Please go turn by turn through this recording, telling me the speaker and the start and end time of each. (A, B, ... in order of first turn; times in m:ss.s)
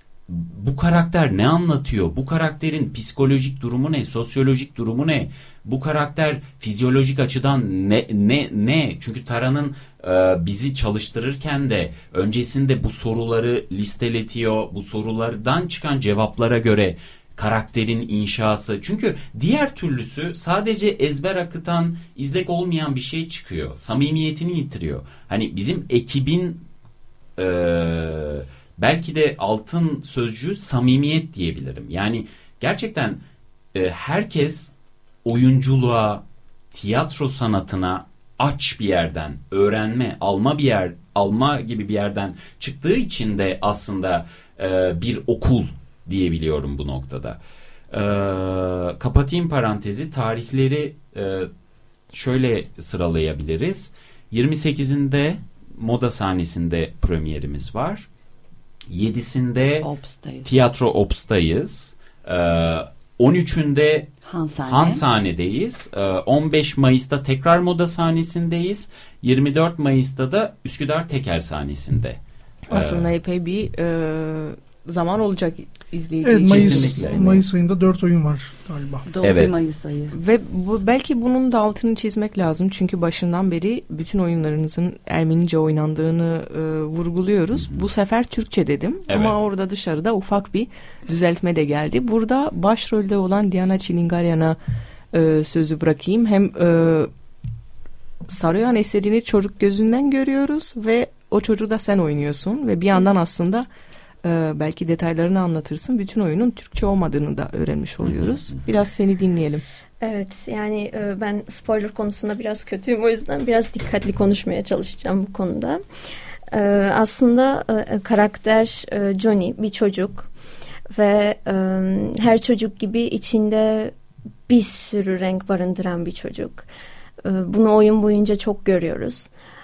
0:00.3-0:26.6 A
0:27.4-0:33.2 A
0:33.7-0:34.7 A
0:35.2-0:47.4 A
0:47.9-0:51.5 A
0:52.1-0:58.1 A
0:58.9-0:59.9 A
0:59.8-1:00.5 B
1:00.4-1:04.1 A
1:04.2-1:05.0 B
1:04.6-1:13.1 A
1:12.7-1:17.4 C
1:16.2-1:19.0 D
1:16.5-1:17.4 A
1:19.0-1:20.1 B
1:19.2-1:19.5 A
1:20.1-1:34.6 C
1:27.6-1:27.8 A
1:29.1-1:29.4 A
1:35.1-1:37.1 C
1:38.3-1:43.7 C
1:44.2-1:49.6 C
1:48.0-1:48.6 A
1:50.0-1:55.8 E
1:56.5-2:00.3 E
2:00.9-2:03.9 E
2:04.5-2:06.6 E
2:07.2-2:09.3 E